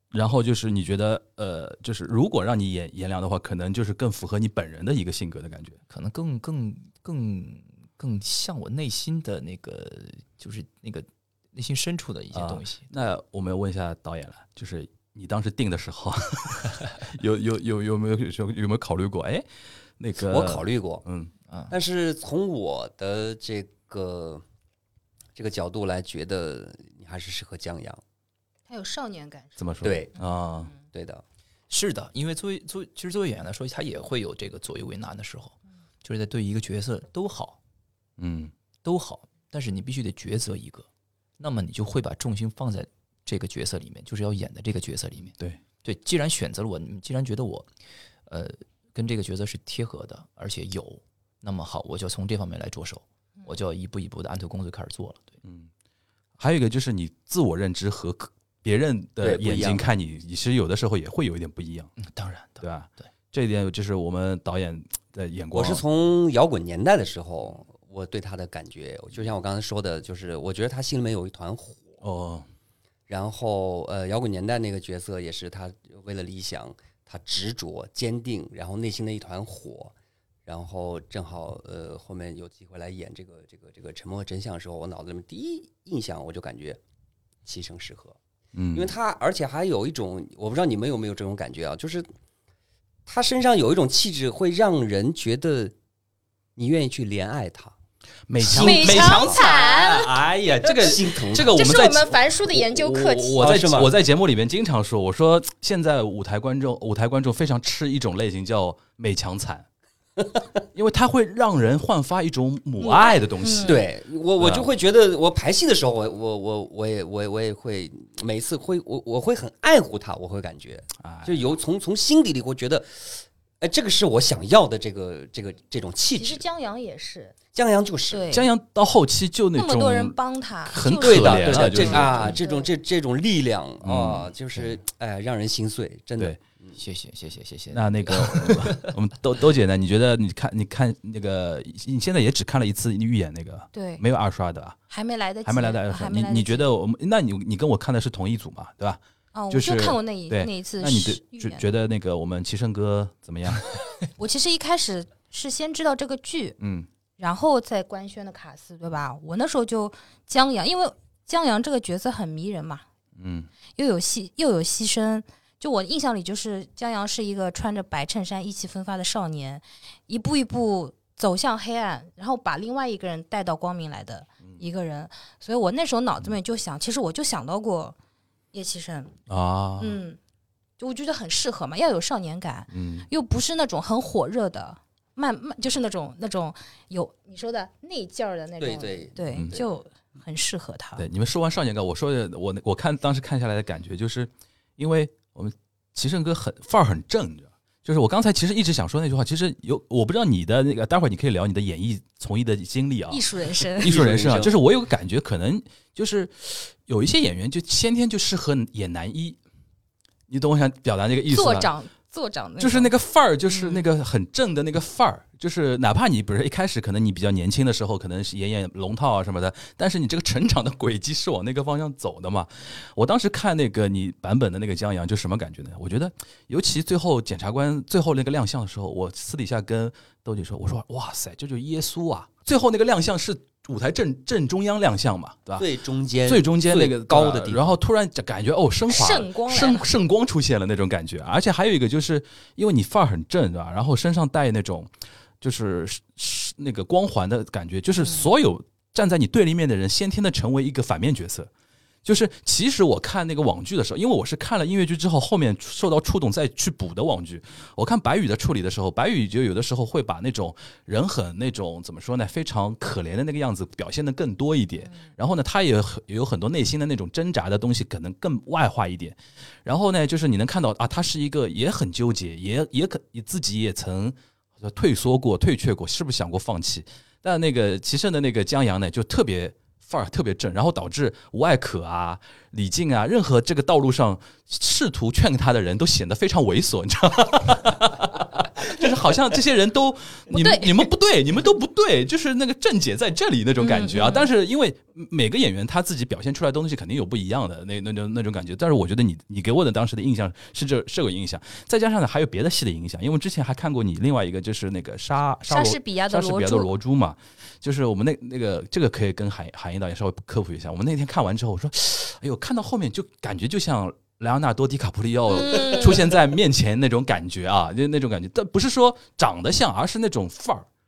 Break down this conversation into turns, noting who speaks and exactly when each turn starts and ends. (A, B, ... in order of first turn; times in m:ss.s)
0:00.1-0:05.8 A
0:05.9-0:12.9 B
0:12.3-0:19.5 A
0:20.0-0:21.3 A
0:20.2-0:21.0 C
0:21.5-0:21.7 B
0:21.7-0:24.4 C
0:25.4-0:28.0 C
0:28.7-0:29.6 D
0:29.6-0:30.7 A
0:29.8-0:30.1 C
0:30.9-0:31.2 C
0:31.7-0:37.6 B
0:38.2-0:38.5 A
0:38.8-0:40.9 B
0:41.4-0:47.7 B
0:48.3-0:55.4 B
0:55.4-0:55.7 A
0:56.4-1:01.9 A
0:59.2-0:59.9 C
1:02.0-1:03.1 B
1:02.6-1:05.8 A
1:05.5-1:12.0 C
1:12.0-1:12.5 A
1:13.1-1:19.9 C
1:20.5-1:26.8 C
1:27.4-1:28.2 C
1:28.5-1:29.0 A
1:28.7-1:32.1 C
1:33.1-1:35.8 C
1:36.6-1:37.8 C
1:38.3-1:49.7 A
1:38.4-1:39.4 C
1:38.4-1:40.2 D
1:40.6-1:41.6 C
1:40.8-1:43.5 D
1:43.4-1:43.9 C
1:50.7-1:53.9 A
1:52.8-1:53.9 D
1:53.6-2:06.4 C
1:54.4-1:54.7 A
2:01.0-2:01.6 A
2:06.2-2:07.4 D
2:07.5-2:08.3 C
2:08.1-2:08.5 D
2:08.3-2:12.4 A
2:09.6-2:12.7 D
2:10.9-2:16.8 C
2:13.8-2:14.3 A
2:16.8-2:18.9 B
2:17.7-2:24.8 A
2:23.7-2:24.0 D
2:24.9-2:26.7 D
2:25.4-2:33.7 A
2:29.3-2:31.6 D
2:34.2-2:36.6 D
2:36.6-2:36.9 A
2:37.2-2:42.8 D
2:43.2-2:43.5 A
2:43.8-2:58.0 D
2:58.5-2:59.1 D
2:59.3-3:00.0 A
2:59.8-3:00.2 D
3:00.8-3:11.0 D
3:02.7-3:03.1 A
3:08.6-3:09.7 C
3:09.3-3:09.6 A
3:11.0-3:23.2 A
3:23.1-3:23.9 D
3:23.8-3:29.4 A
3:23.8-3:24.5 C
3:30.3-3:31.7 A
3:31.3-3:32.9 D
3:32.6-3:55.7 A
3:33.5-3:33.8 D
3:55.6-3:57.8 C
3:56.3-4:11.5 A
3:58.9-3:59.9 D
4:12.0-5:20.7 A
4:50.3-4:50.9 D
4:53.6-4:54.3 D
5:05.5-5:06.7 D
5:15.3-5:16.2 D